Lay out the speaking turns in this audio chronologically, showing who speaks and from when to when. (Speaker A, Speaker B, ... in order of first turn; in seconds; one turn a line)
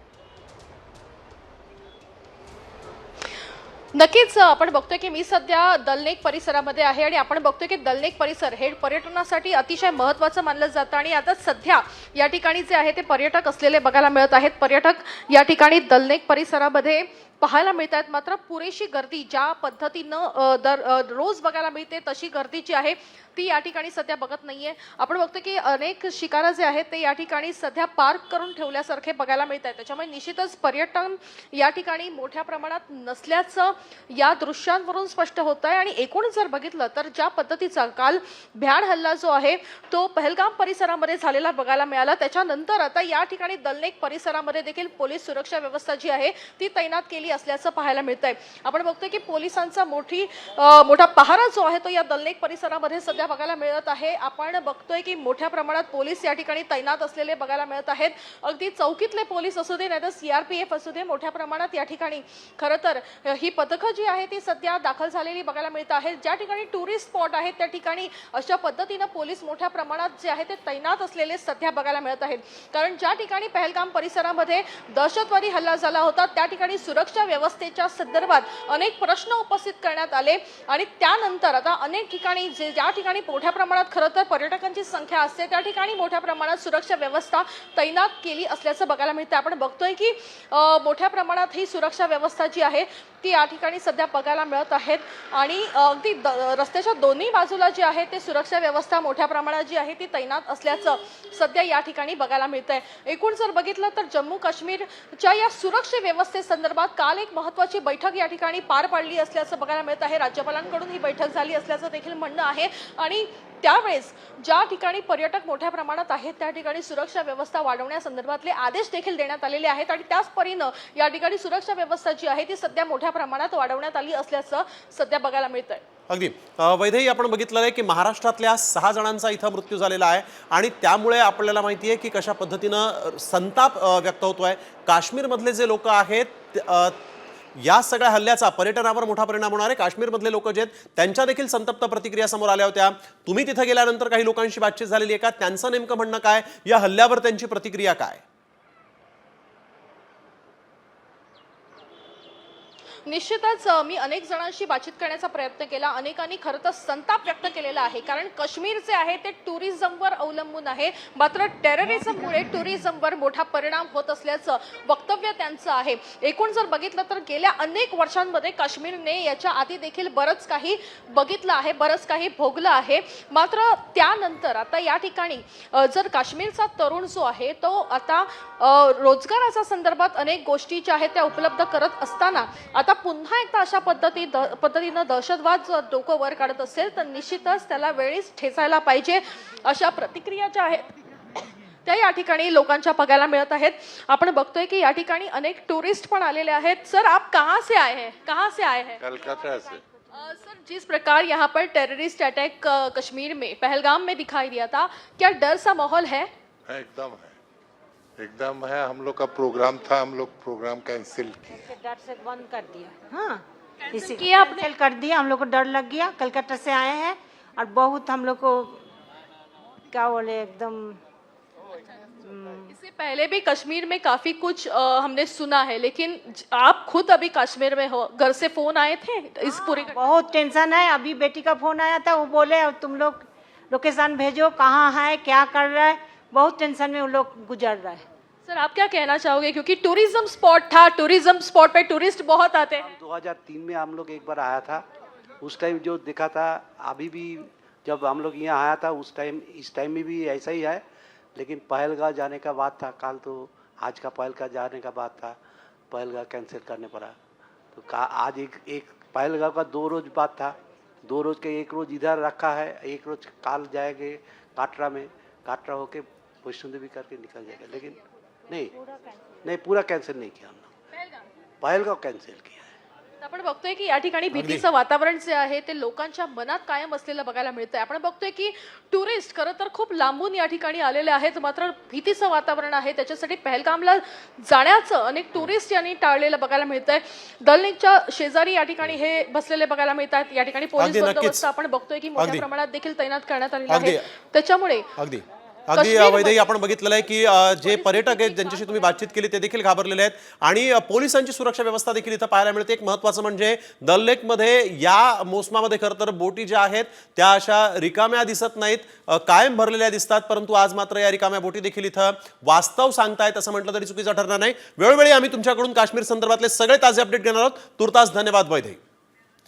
Speaker A: 3.9-125.8
Speaker B: 126.1-136.9
Speaker B: 137.6-148.2
Speaker A: 153.1-190.9
Speaker A: 191.8-199.1
Speaker C: 199.0-199.8
Speaker A: 200.1-206.3
Speaker C: 206.7-207.4
Speaker C: 208.2-211.5
Speaker D: 211.5-218.8
Speaker A: 213.9-214.7
Speaker D: 219.9-221.0
Speaker D: 222.1-222.7
Speaker A: 222.7-230.0
Speaker D: 229.4-238.1
Speaker A: 238.5-242.9
Speaker E: 242.8-244.8
Speaker E: 245.4-250.8
Speaker E: 251.3-255.4
Speaker E: 255.9-257.1
Speaker E: 257.7-268.7
Speaker E: 269.4-270.7
Speaker E: 271.6-272.7
Speaker A: 273.2-294.9
Speaker B: 274.3-274.6
Speaker B: 290.8-291.4
Speaker B: 292.2-292.4
Speaker B: 293.7-294.0
Speaker B: 295.0-318.8
Speaker A: 295.7-296.5
Speaker A: 297.5-298.8